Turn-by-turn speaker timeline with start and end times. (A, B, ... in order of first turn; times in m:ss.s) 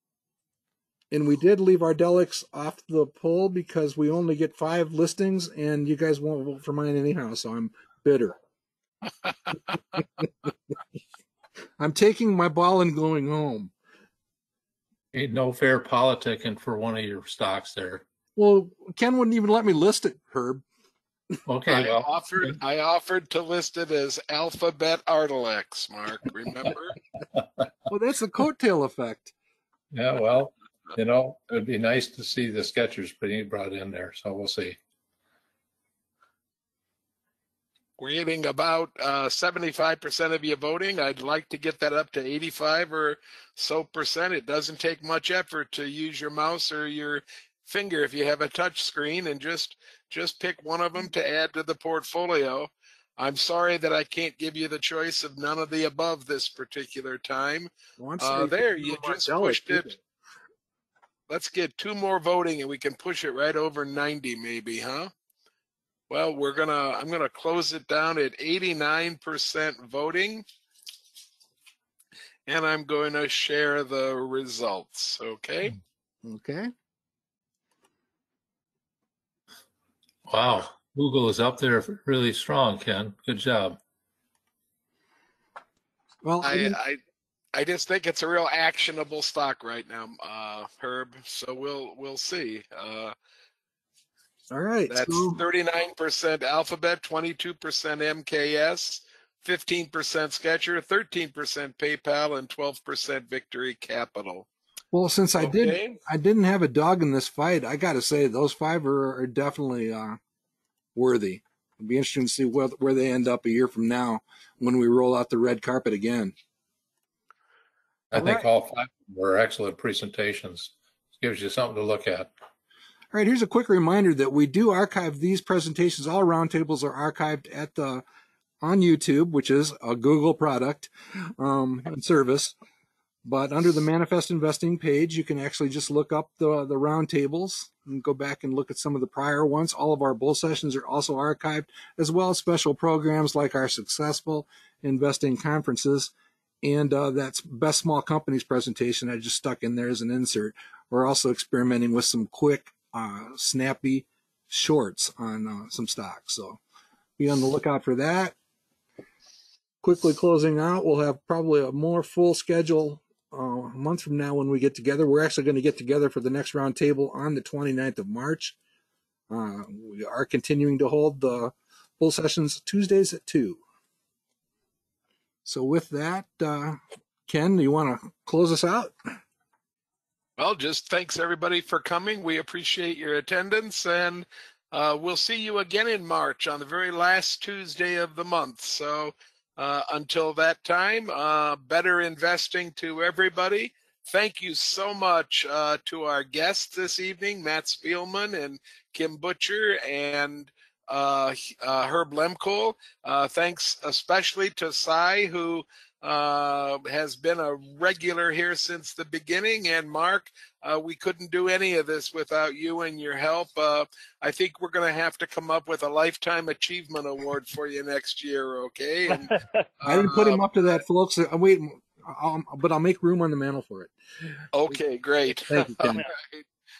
0:01.1-0:08.4 A
0:11.8-0:13.7 A
0:15.1-0:18.0 B
0:18.4-0:20.6 A
0:21.5-0:22.5 B
0:21.7-0:27.0 C
0:27.9-0:29.3 A
0:29.9-0:34.8 B
0:38.0-0:59.9 C
0:58.0-1:00.0 A
1:01.3-1:05.1 C
1:06.1-1:10.4 C
1:12.5-1:15.8 C
1:16.2-1:16.7 A
1:20.3-1:23.8 B
1:26.2-1:26.8 A
1:26.4-1:27.0 C
1:27.6-1:33.2 C
1:34.5-1:35.4 A
1:34.9-1:44.5 C
1:44.9-1:50.2 A
1:45.4-1:46.0 C
1:51.0-1:56.3 A
1:58.1-2:02.3 B
1:58.2-1:58.5 A
2:03.1-2:08.0 A
2:08.6-2:12.6 A
2:13.2-2:36.6 A
2:37.2-2:38.4 A
2:39.8-2:48.6 A
2:49.3-2:53.6 A
2:55.4-2:59.0 A
3:00.4-3:40.4 C
3:39.8-3:43.9 A
3:44.5-3:46.4 C
3:45.3-3:46.1 A